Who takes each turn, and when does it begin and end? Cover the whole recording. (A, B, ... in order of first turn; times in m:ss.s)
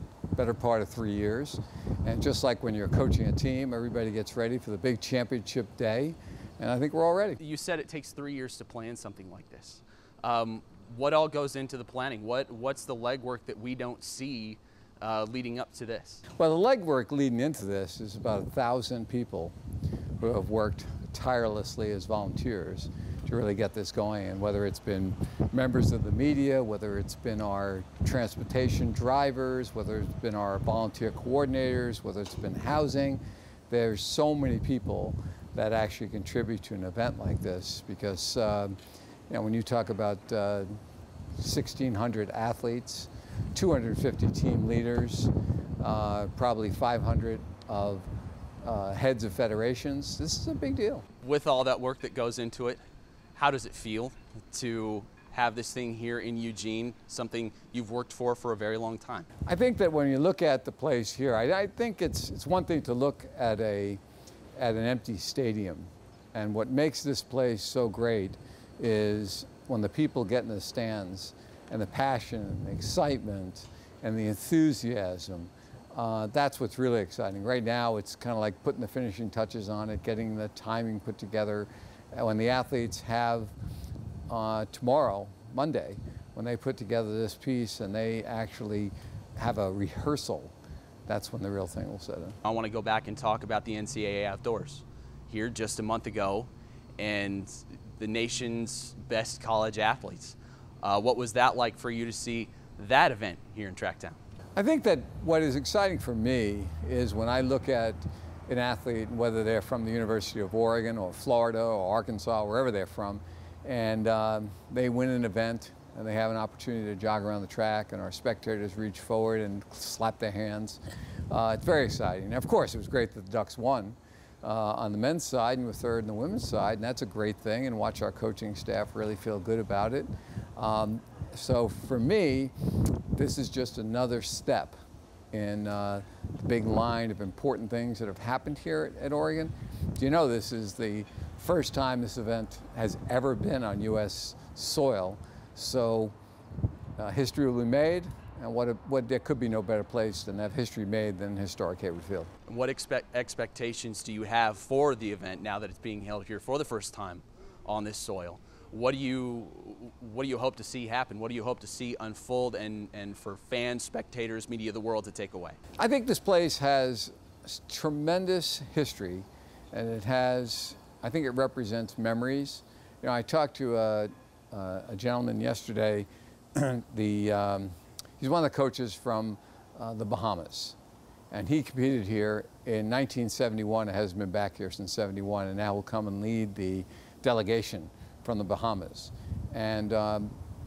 0:00.4-0:07.4 A
0:07.4-0:16.2 B
0:16.4-0:19.5 A
0:20.2-0:38.8 A
0:39.3-0:40.7 A
0:41.4-0:48.1 A
0:48.6-0:51.0 A
0:51.2-0:52.8 B
0:53.4-0:59.3 B
0:59.5-1:04.0 A
1:04.6-1:23.5 A
1:24.3-1:30.5 A
1:31.1-1:32.4 A
1:32.4-1:44.2 B
1:44.6-2:12.5 A
2:13.2-2:14.8 A
2:15.3-2:26.2 A
2:27.0-2:32.3 A
2:32.5-2:45.6 B
2:45.8-3:00.8 A
3:01.3-3:10.3 A